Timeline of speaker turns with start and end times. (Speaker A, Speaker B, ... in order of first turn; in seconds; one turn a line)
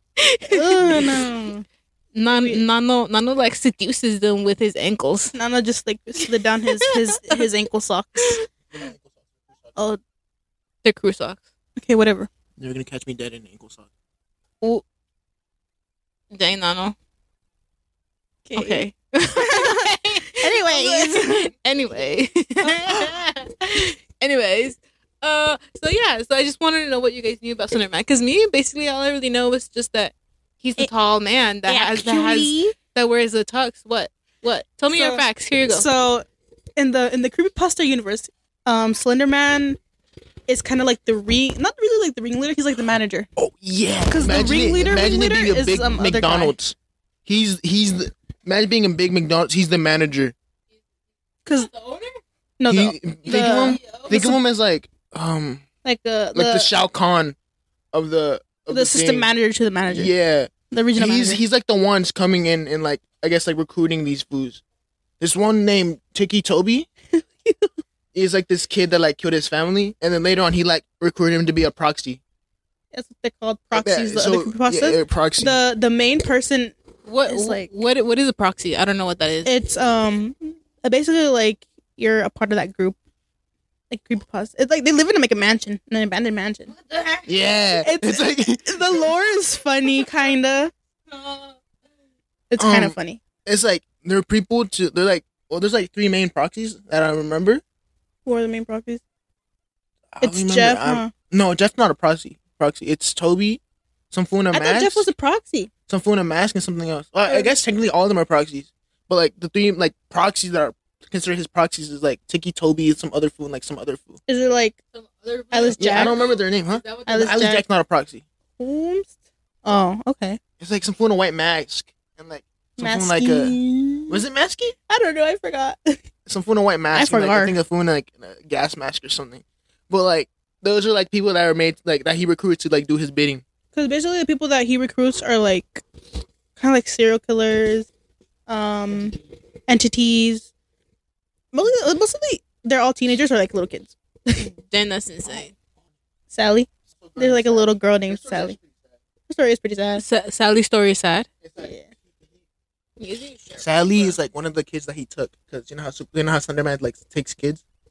Speaker A: 0.2-1.5
Speaker B: 0.5-1.6
Speaker C: 0.8-1.2
Speaker A: 2.1-5.3
Speaker B: 2.2-2.6
Speaker B: 5.3-8.4
Speaker A: 6.8-7.4
Speaker C: 8.7-9.7
Speaker A: 10.8-11.4
Speaker B: 11.8-12.3
Speaker C: 12.6-13.9
Speaker A: 16.3-16.9
Speaker B: 18.4-21.5
Speaker A: 18.5-35.9
Speaker B: 22.6-23.1
Speaker B: 31.7-32.7
Speaker B: 34.9-36.2
Speaker B: 36.8-39.8
Speaker B: 40.5-43.3
Speaker C: 43.4-50.3
Speaker B: 44.1-46.5
Speaker A: 51.5-52.2
Speaker B: 52.6-53.8
Speaker C: 52.7-55.6
Speaker A: 53.2-54.4
Speaker B: 55.8-56.7
Speaker C: 56.3-57.4
Speaker C: 57.9-59.3
Speaker B: 58.7-60.1
Speaker C: 59.9-64.6
Speaker B: 60.7-61.4
Speaker C: 65.2-66.9
Speaker B: 67.1-67.7
Speaker C: 68.1-72.2
Speaker B: 72.9-76.7
Speaker C: 73.7-75.6
Speaker A: 77.0-79.5
Speaker B: 77.2-77.7
Speaker B: 79.4-83.0
Speaker B: 83.9-86.7
Speaker A: 86.8-87.2
Speaker C: 87.2-89.1
Speaker B: 87.8-90.7
Speaker A: 91.1-91.6
Speaker B: 92.5-93.2
Speaker C: 92.6-97.6
Speaker B: 98.2-99.0
Speaker C: 100.1-105.1
Speaker B: 100.2-101.1
Speaker B: 104.5-105.7
Speaker C: 105.9-114.2
Speaker B: 107.2-107.5
Speaker B: 114.3-114.8
Speaker A: 114.9-117.3
Speaker B: 115.5-116.2
Speaker C: 115.8-118.2
Speaker B: 117.0-117.6
Speaker B: 118.6-119.1
Speaker B: 119.6-120.4
Speaker C: 120.6-123.6
Speaker B: 122.8-124.2
Speaker C: 124.1-124.7
Speaker B: 124.9-126.0
Speaker C: 126.2-133.4
Speaker B: 126.9-127.6
Speaker B: 133.7-135.8
Speaker B: 136.6-137.9
Speaker B: 138.5-140.5
Speaker B: 141.5-144.5
Speaker A: 144.3-145.5
Speaker B: 146.3-148.6
Speaker C: 146.9-148.7
Speaker B: 149.3-150.0
Speaker A: 149.9-151.3
Speaker C: 151.4-151.7
Speaker B: 151.6-151.9
Speaker A: 153.0-154.0
Speaker C: 153.6-157.6